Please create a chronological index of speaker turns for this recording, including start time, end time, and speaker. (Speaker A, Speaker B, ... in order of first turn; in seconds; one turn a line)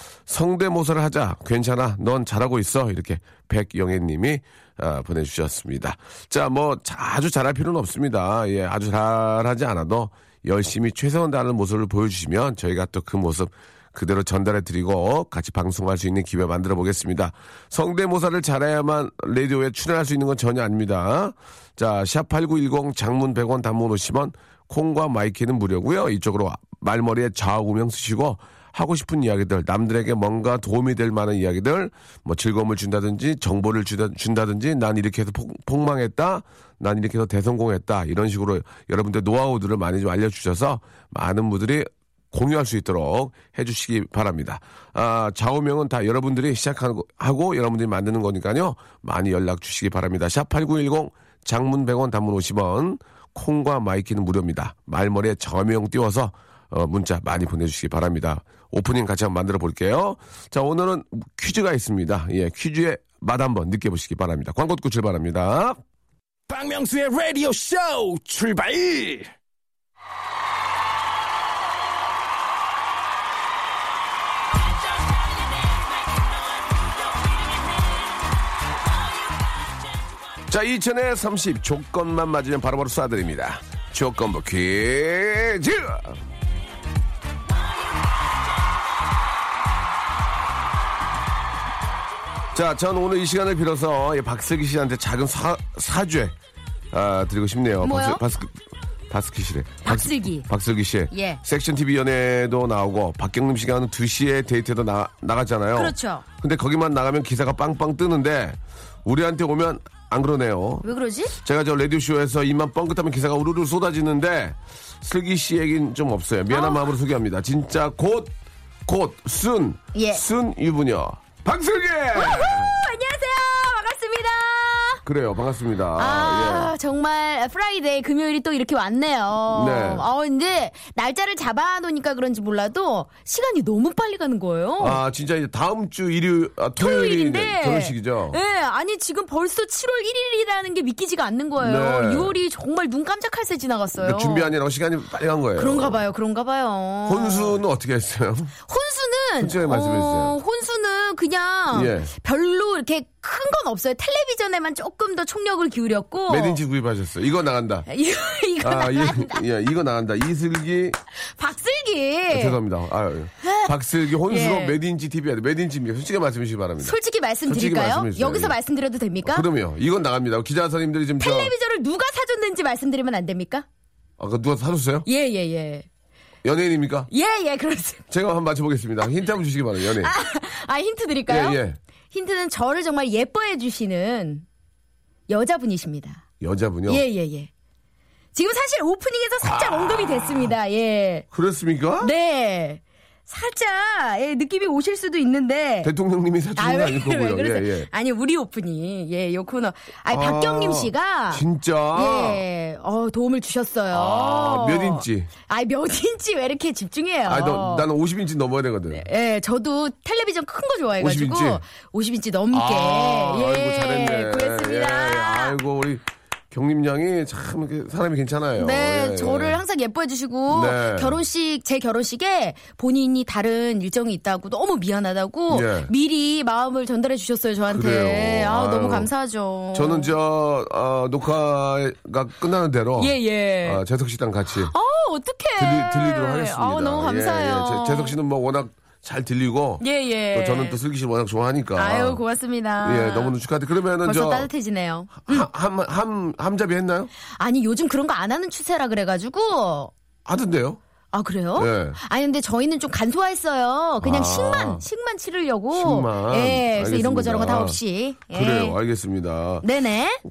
Speaker A: 0.3-65.8
Speaker B: 66.5-69.3
Speaker A: 80.5-86.2
Speaker A: 92.5-96.3
Speaker A: 96.9-98.5
Speaker C: 97.8-98.2
Speaker A: 99.1-110.8
Speaker C: 99.8-100.5
Speaker C: 101.1-101.4
Speaker C: 105.7-106.2
Speaker C: 110.8-111.3
Speaker A: 111.4-118.3
Speaker C: 116.5-116.8
Speaker A: 118.8-122.8
Speaker C: 119.9-120.2
Speaker C: 122.1-125.0
Speaker A: 125.0-126.7
Speaker C: 126.0-135.0
Speaker A: 129.5-130.1
Speaker A: 134.8-138.4
Speaker C: 136.8-144.5
Speaker A: 141.6-142.3
Speaker A: 144.0-146.0
Speaker C: 145.6-147.6
Speaker A: 147.1-148.5
Speaker C: 148.7-156.6
Speaker A: 149.4-150.4
Speaker A: 151.7-152.1
Speaker A: 156.3-157.9
Speaker C: 157.9-159.4
Speaker A: 158.6-160.9
Speaker C: 161.4-162.6
Speaker A: 162.3-168.6
Speaker C: 163.4-163.7
Speaker C: 164.2-164.8
Speaker C: 166.8-169.5
Speaker A: 169.2-171.5
Speaker C: 171.2-173.7
Speaker A: 174.2-175.1
Speaker C: 175.1-175.8
Speaker A: 176.4-177.1
Speaker C: 177.1-178.0
Speaker A: 178.1-180.1
Speaker C: 180.0-181.6
Speaker A: 181.3-181.8
Speaker C: 182.1-184.4
Speaker C: 185.3-186.2
Speaker A: 186.4-187.0
Speaker C: 186.9-187.5
Speaker C: 188.3-191.2
Speaker A: 189.4-190.5
Speaker A: 191.3-192.1
Speaker C: 192.0-195.9
Speaker A: 195.8-197.9
Speaker C: 196.6-201.4
Speaker A: 200.1-202.4
Speaker C: 201.9-207.9
Speaker A: 203.9-205.3
Speaker A: 207.2-209.1
Speaker C: 208.9-215.6
Speaker A: 211.0-211.6
Speaker A: 212.5-219.6
Speaker C: 218.6-230.1
Speaker A: 220.5-221.2
Speaker A: 225.5-225.9
Speaker A: 227.7-229.1
Speaker A: 229.7-234.7
Speaker C: 233.0-233.8
Speaker C: 234.7-238.2
Speaker A: 235.6-242.2
Speaker C: 239.8-240.8
Speaker C: 241.8-243.3
Speaker A: 242.8-244.5
Speaker C: 244.0-245.5
Speaker A: 245.2-247.1
Speaker C: 247.4-249.9
Speaker A: 250.2-250.8
Speaker C: 251.1-258.8
Speaker A: 251.5-252.0
Speaker A: 254.0-254.8
Speaker A: 255.7-257.8
Speaker A: 258.3-259.6
Speaker C: 259.6-260.2